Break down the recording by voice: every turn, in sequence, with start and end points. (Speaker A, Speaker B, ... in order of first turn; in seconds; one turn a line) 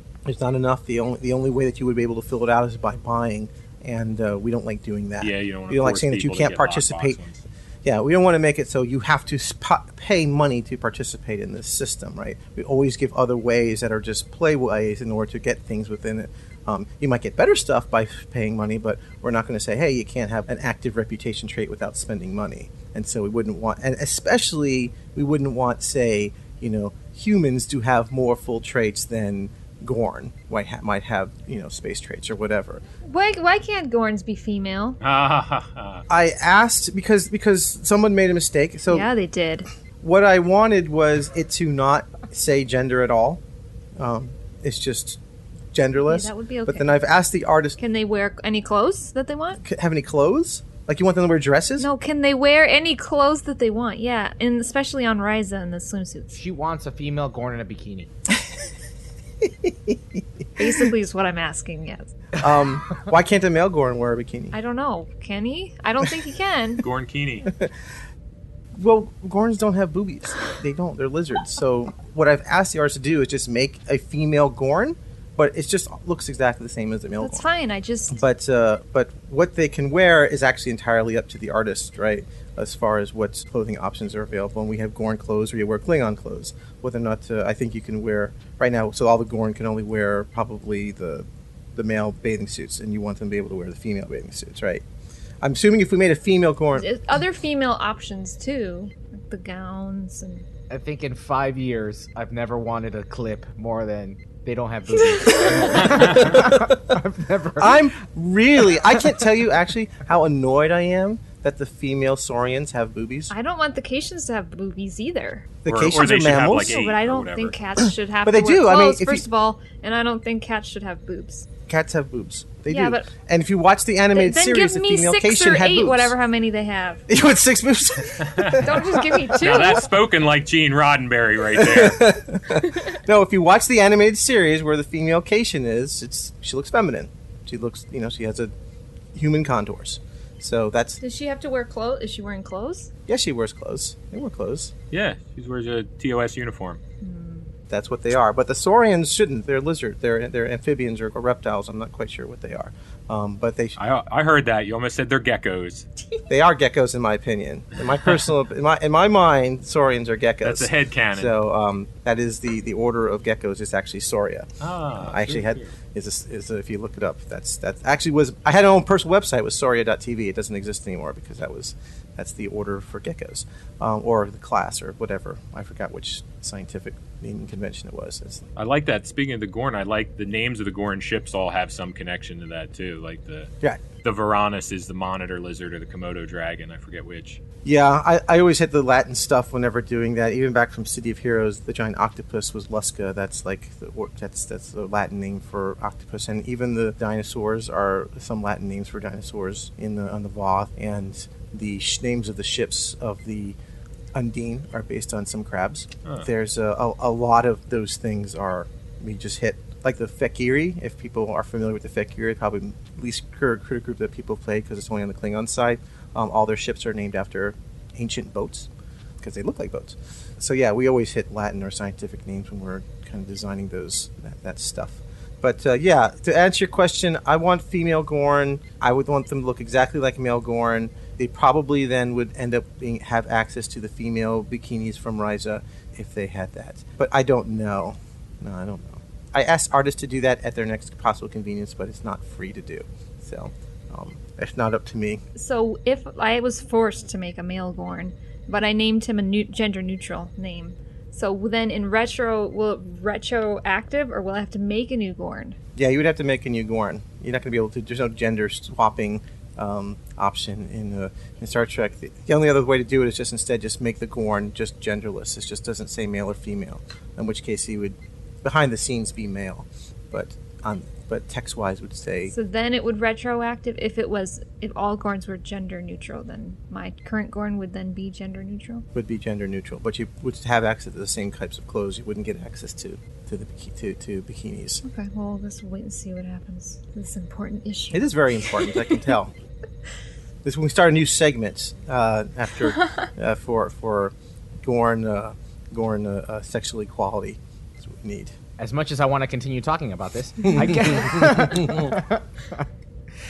Speaker A: 0.3-7.2
Speaker B: 5.2-7.4
Speaker A: 7.8-32.8
Speaker C: 33.0-35.0
Speaker B: 35.0-36.0
Speaker A: 36.1-39.1
Speaker C: 38.9-39.7
Speaker A: 40.0-43.4
Speaker A: 44.0-45.2
Speaker A: 45.7-47.8
Speaker C: 46.1-46.9
Speaker C: 47.8-49.6
Speaker A: 49.6-51.9
Speaker C: 51.8-56.4
Speaker D: 56.3-58.1
Speaker A: 59.4-60.7
Speaker C: 60.6-62.1
Speaker A: 62.4-64.5
Speaker C: 64.5-66.8
Speaker B: 66.8-67.5
Speaker A: 68.8-77.5
Speaker C: 77.2-78.2
Speaker A: 78.1-94.8
Speaker A: 95.4-96.9
Speaker C: 96.8-100.5
Speaker D: 100.7-107.8
Speaker C: 105.3-105.7
Speaker A: 106.0-106.8
Speaker A: 107.6-113.3
Speaker C: 113.3-115.5
Speaker A: 115.6-116.8
Speaker B: 115.7-117.6
Speaker C: 116.5-121.5
Speaker A: 118.2-119.3
Speaker A: 121.7-126.1
Speaker C: 122.7-123.1
Speaker C: 124.1-127.0
Speaker A: 127.1-129.7
Speaker B: 128.2-128.7
Speaker C: 128.6-129.9
Speaker B: 129.4-132.0
Speaker A: 131.6-138.5
Speaker C: 132.6-133.0
Speaker A: 139.1-141.0
Speaker C: 141.0-142.9
Speaker A: 143.1-144.7
Speaker B: 144.9-146.8
Speaker C: 147.0-147.5
Speaker A: 147.7-153.8
Speaker B: 153.8-155.9
Speaker A: 156.3-178.5
Speaker B: 160.4-161.3
Speaker B: 164.6-165.7
Speaker B: 178.6-183.5
Speaker B: 184.0-187.4
Speaker A: 187.7-203.6
Speaker A: 204.2-218.7
Speaker A: 219.2-245.2
Speaker C: 245.4-255.6
Speaker A: 255.8-272.3
Speaker C: 272.3-278.9
Speaker A: 278.9-284.8
Speaker C: 284.8-289.0
Speaker A: 287.9-289.4
Speaker A: 290.4-298.4
Speaker D: 298.6-302.7
Speaker A: 300.6-301.9